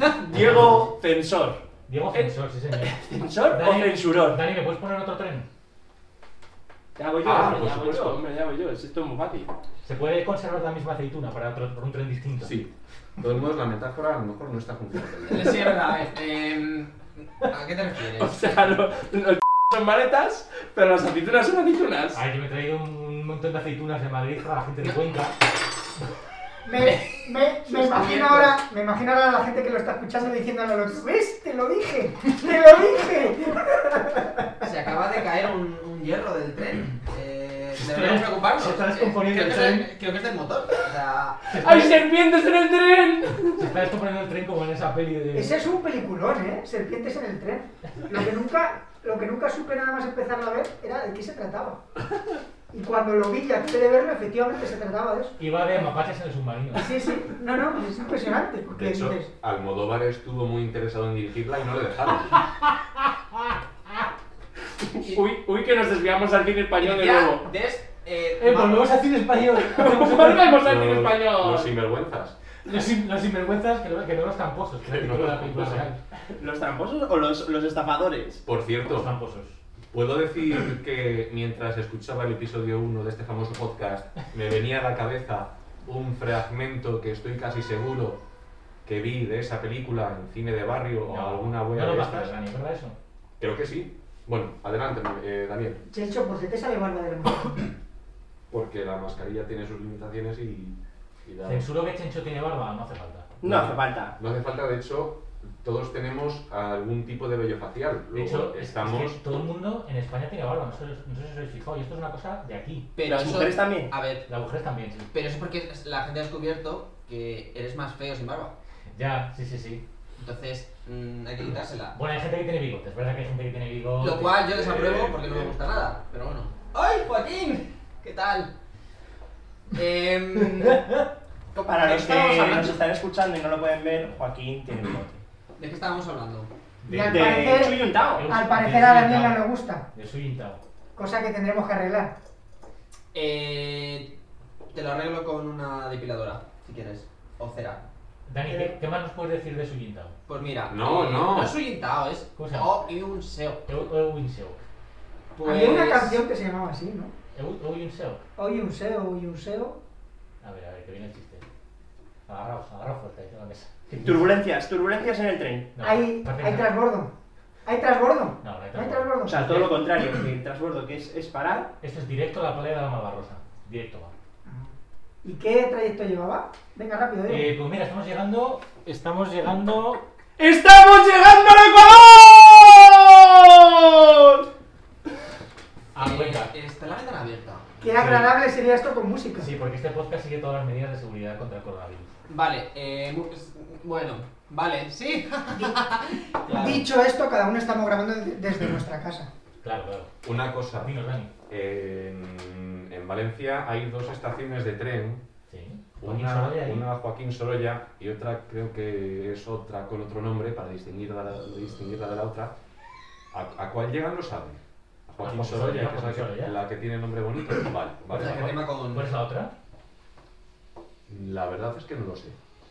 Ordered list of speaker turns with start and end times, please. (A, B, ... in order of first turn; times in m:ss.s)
0:00.2-0:01.6 A
0:01.9-0:05.5 B
0:02.1-0:04.4 A
0:07.0-0:09.5 A
0:07.2-0:08.2 C
0:09.8-0:12.6 B
0:12.4-0:15.6 C
0:15.3-0:18.4 D
0:18.2-0:22.2 A
0:22.1-0:25.4 B
0:26.6-0:34.5 E
0:26.8-0:27.2 D
0:27.7-0:28.5 D
0:28.0-0:28.3 A
0:34.6-0:41.5 D
0:37.8-0:39.9 B
0:41.5-0:42.1 B
0:41.6-0:43.7 A
0:43.4-0:45.6 B
0:45.3-0:51.8 E
0:52.7-0:55.4 E
0:55.4-0:56.9 B
0:56.8-0:59.3 E
0:58.7-1:02.4 C
1:04.9-1:07.4 A
1:06.8-1:08.9 D
1:08.4-1:10.6 B
1:09.6-1:11.8 A
1:10.6-1:12.4 C
1:12.7-1:16.0 B
1:14.9-1:15.9 C
1:16.4-1:18.4 A
1:18.5-1:19.1 C
1:18.8-1:19.6 B
1:19.9-1:28.2 C
1:28.8-1:32.3 C
1:31.1-1:33.0 B
1:33.4-1:35.8 C
1:35.9-1:37.7 E
1:38.5-1:41.7 C
1:41.4-1:43.3 B
1:43.4-1:44.2 A
1:43.4-1:49.2 C
1:48.1-1:52.9 B
1:53.0-1:54.3 D
1:53.1-1:53.9 A
1:54.3-1:55.1 B
1:55.1-1:58.5 D
1:59.0-1:59.8 B
2:00.2-2:02.0 D
2:01.9-2:04.3 B
2:04.0-2:08.5 D
2:04.4-2:05.6 C
2:09.7-2:10.8 D
2:11.5-2:12.8 D
2:11.6-2:15.2 A
2:15.6-2:16.5 D
2:16.8-2:20.6 B
2:16.9-2:19.9 E
2:17.1-2:18.3 A
2:21.0-2:22.1 E
2:23.1-2:24.1 D
2:24.7-2:27.8 D
2:28.3-2:30.2 B
2:30.3-2:33.6 D
2:30.7-2:31.6 C
2:32.4-2:32.7 B
2:33.7-2:34.6 B
2:35.4-2:36.2 D
2:35.4-2:37.1 E
2:37.4-2:38.2 B
2:38.4-2:39.8 E
2:40.4-2:41.4 B
2:42.3-2:44.4 B
2:44.0-2:45.8 A
2:45.8-2:46.7 B
2:45.8-2:47.1 E
2:47.6-2:49.5 E
2:48.4-2:49.8 B
2:49.3-2:51.8 A
2:51.8-2:54.1 B
2:54.5-2:54.7 E
2:55.2-2:57.5 E
2:57.3-3:00.0 B
3:00.4-3:04.4 A
3:05.9-3:06.5 B
3:06.0-3:07.7 D
3:07.8-3:09.5 E
3:07.9-3:08.4 B
3:09.4-3:12.1 B
3:12.3-3:16.8 D
3:16.5-3:19.3 E
3:19.6-3:20.1 B
3:20.2-3:20.9 C
3:20.8-3:21.3 B
3:21.5-3:25.2 C
3:25.5-3:26.8 B
3:26.0-3:32.5 C
3:33.3-3:38.6 C
3:35.2-3:36.6 B
3:38.1-3:39.1 D
3:38.9-3:39.5 B
3:41.1-3:42.4 C